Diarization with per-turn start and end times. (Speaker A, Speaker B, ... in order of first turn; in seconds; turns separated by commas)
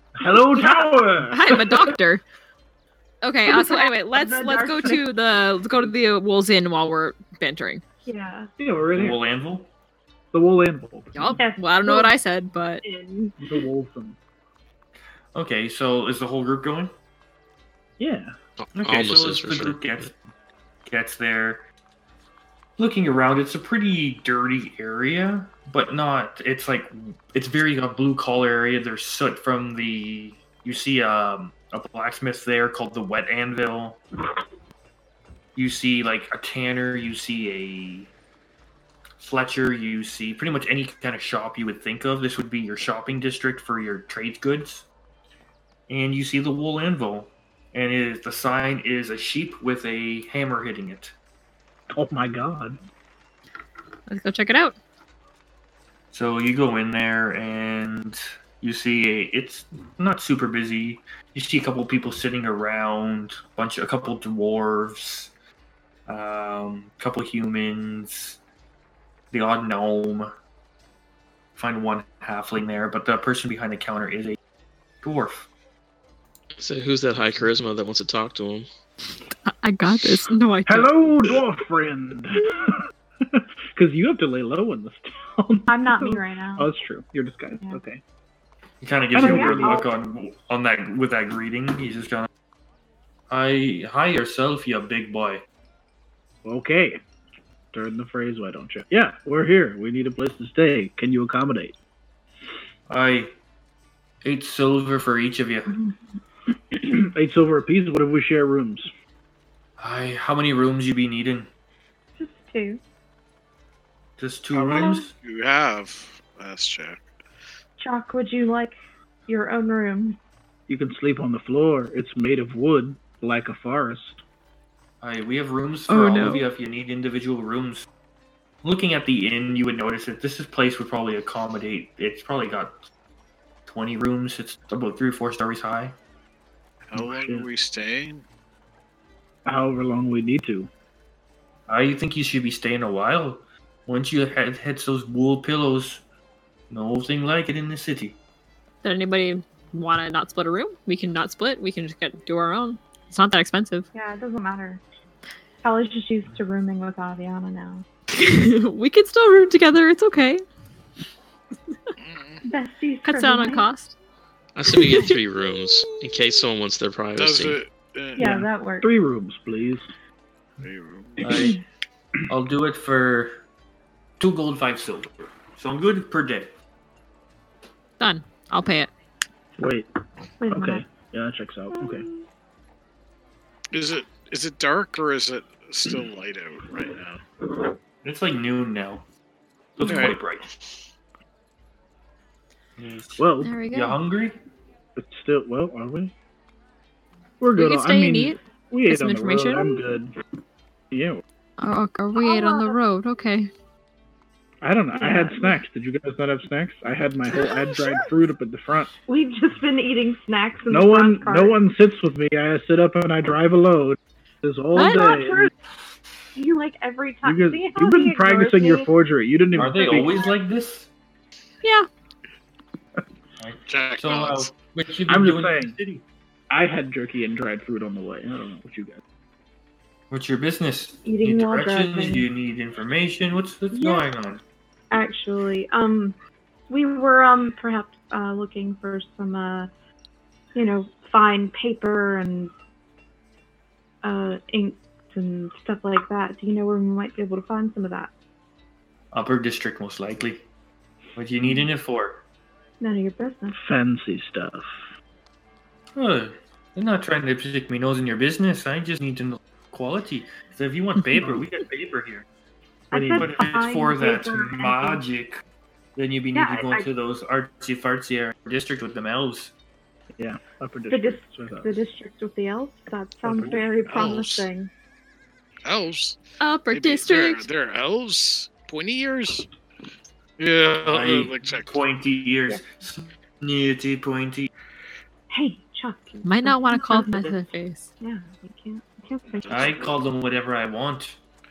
Speaker A: 0.2-1.9, Speaker B: 0.5-0.9, Speaker C: 1.3-2.2, Speaker C: 3.2-7.8, Speaker B: 3.5-5.0, Speaker B: 8.1-8.5, Speaker A: 8.6-9.2, Speaker D: 8.9-9.7, Speaker A: 10.3-11.4, Speaker C: 11.2-12.8, Speaker B: 11.4-12.1, Speaker B: 12.8-13.7, Speaker A: 13.4-14.2, Speaker D: 15.3-16.9, Speaker A: 18.0-18.3, Speaker E: 18.6-20.1, Speaker D: 18.8-20.2, Speaker D: 20.9-21.6, Speaker D: 22.8-34.0, Speaker D: 35.5-38.1, Speaker D: 39.2-44.9, Speaker D: 45.9-51.1, Speaker A: 51.9-52.8, Speaker C: 54.1-54.8, Speaker D: 56.1-65.3, Speaker D: 66.1-68.4, Speaker D: 69.3-70.3, Speaker D: 71.6-74.4, Speaker D: 75.0-75.5, Speaker E: 76.6-78.7, Speaker C: 79.5-80.9, Speaker A: 80.7-88.0, Speaker B: 85.7-86.7, Speaker D: 88.8-92.3, Speaker A: 89.1-89.8, Speaker B: 89.2-89.9, Speaker D: 93.3-95.4, Speaker A: 96.5-97.0, Speaker A: 97.7-101.8, Speaker D: 102.9-103.3, Speaker D: 104.2-105.8, Speaker A: 106.7-108.9, Speaker D: 109.8-111.5, Speaker B: 112.2-112.8, Speaker D: 114.2-115.1, Speaker A: 114.5-115.0, Speaker B: 114.7-115.1, Speaker F: 115.2-117.0, Speaker B: 117.8-118.8, Speaker B: 119.3-120.2, Speaker A: 120.7-124.2, Speaker D: 125.0-127.9, Speaker C: 125.9-126.5, Speaker D: 128.6-132.8, Speaker D: 133.7-136.0, Speaker F: 136.9-138.2, Speaker A: 136.9-137.5, Speaker A: 139.4-140.7, Speaker D: 141.7-146.0, Speaker D: 146.7-148.2, Speaker C: 148.8-153.9, Speaker B: 153.9-154.8, Speaker B: 155.6-157.9, Speaker C: 158.1-160.4, Speaker F: 162.0-162.4, Speaker B: 162.4-163.7, Speaker C: 163.1-164.0, Speaker E: 164.6-167.6, Speaker C: 164.7-165.2, Speaker F: 167.2-168.3, Speaker B: 168.2-168.9, Speaker A: 168.2-169.9, Speaker F: 170.6-171.5, Speaker D: 171.2-171.6, Speaker A: 171.2-171.6, Speaker B: 171.3-171.6, Speaker D: 172.3-173.4, Speaker D: 174.2-176.5, Speaker C: 178.0-178.9, Speaker A: 179.6-179.9, Speaker B: 180.4-180.8, Speaker A: 180.5-182.1, Speaker B: 181.7-182.2, Speaker F: 183.7-187.2, Speaker D: 188.0-189.1, Speaker D: 189.8-190.5, Speaker F: 189.9-190.2, Speaker D: 192.8-194.4, Speaker A: 193.2-193.6, Speaker C: 193.4-194.0, Speaker A: 195.0-196.1, Speaker A: 197.4-200.2, Speaker C: 197.6-199.8, Speaker A: 200.9-201.2, Speaker C: 201.6-203.5, Speaker B: 202.2-202.8, Speaker A: 204.6-208.9, Speaker B: 204.9-205.6, Speaker B: 209.1-211.6, Speaker A: 210.7-215.5, Speaker C: 214.8-215.2, Speaker B: 214.8-215.5, Speaker B: 216.3-218.9, Speaker A: 217.2-220.2, Speaker D: 219.5-220.9, Speaker C: 221.6-221.9, Speaker D: 223.4-226.0, Speaker F: 223.7-224.6, Speaker A: 225.1-225.8, Speaker A: 226.5-229.0, Speaker D: 230.1-234.4, Speaker B: 231.1-232.3, Speaker B: 233.7-234.1, Speaker B: 234.9-236.2, Speaker B: 236.7-239.7, Speaker B: 240.6-242.5, Speaker B: 244.0-248.1, Speaker D: 249.1-250.5, Speaker D: 251.2-252.2, Speaker B: 252.8-253.6, Speaker A: 253.5-254.8, Speaker D: 255.9-262.3, Speaker B: 262.9-265.0, Speaker A: 262.9-263.3, Speaker D: 263.2-265.4, Speaker D: 266.0-269.5, Speaker B: 266.3-266.9, Speaker A: 270.2-271.8, Speaker B: 270.9-274.7, Speaker A: 273.2-273.8, Speaker F: 273.9-274.5, Speaker F: 275.6-276.2, Speaker C: 276.4-277.5, Speaker F: 276.7-279.5, Speaker F: 280.4-281.8, Speaker D: 280.9-284.5, Speaker B: 285.3-287.4, Speaker C: 286.2-287.9, Speaker B: 288.0-289.8, Speaker F: 289.4-290.0, Speaker D: 289.5-291.2